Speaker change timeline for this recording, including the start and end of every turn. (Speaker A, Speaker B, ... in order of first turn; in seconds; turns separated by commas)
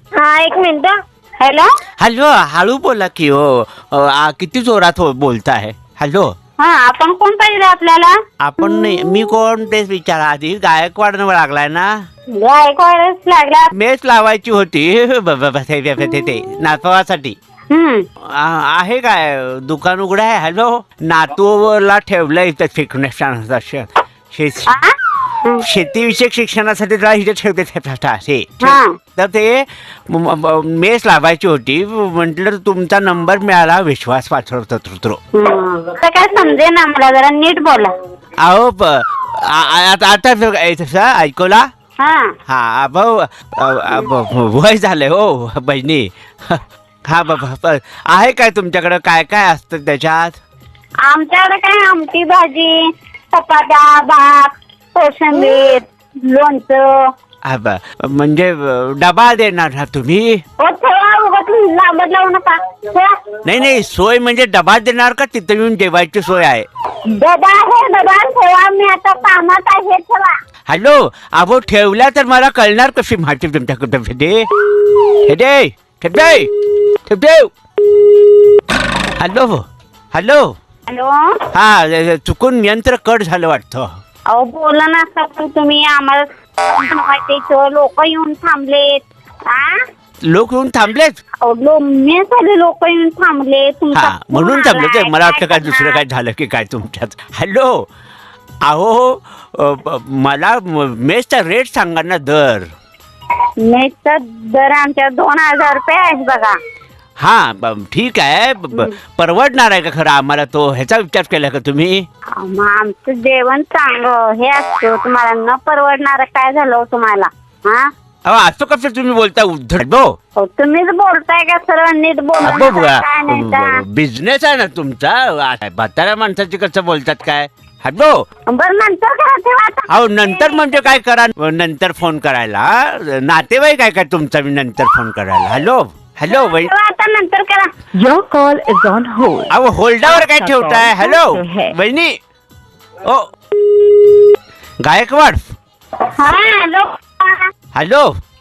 Speaker A: 0.2-1.7, Speaker B: 2.0-6.3, Speaker A: 6.6-8.2, Speaker B: 8.4-11.9, Speaker A: 12.3-13.7, Speaker B: 13.7-17.4, Speaker A: 17.7-18.0, Speaker B: 18.3-24.7, Speaker A: 24.7-25.6, Speaker B: 25.6-35.2, Speaker A: 28.6-29.0, Speaker A: 35.3-37.9, Speaker B: 38.4-41.6, Speaker A: 42.0-42.3, Speaker B: 42.5-50.4, Speaker A: 51.0-57.1, Speaker B: 57.5-60.4, Speaker A: 60.6-63.1, Speaker B: 63.4-66.7, Speaker A: 67.1-70.3, Speaker B: 70.7-74.5, Speaker B: 75.2-76.5, Speaker B: 77.0-77.5, Speaker B: 79.2-80.5, Speaker A: 80.9-81.1, Speaker B: 81.5-83.9, Speaker A: 84.3-89.8, Speaker B: 90.3-91.2, Speaker A: 91.4-96.0, Speaker B: 93.9-97.9, Speaker B: 98.6-102.7, Speaker A: 103.6-106.6, Speaker B: 107.2-112.0, Speaker A: 112.3-117.9, Speaker B: 118.2-120.1, Speaker A: 120.4-123.8, Speaker B: 122.4-128.2, Speaker A: 128.5-130.7, Speaker B: 129.9-136.7, Speaker A: 136.3-137.7, Speaker C: 137.9-139.5, Speaker B: 139.5-142.1, Speaker C: 140.2-141.7, Speaker B: 143.0-143.3, Speaker B: 144.8-145.4, Speaker A: 146.1-147.4, Speaker B: 147.7-148.1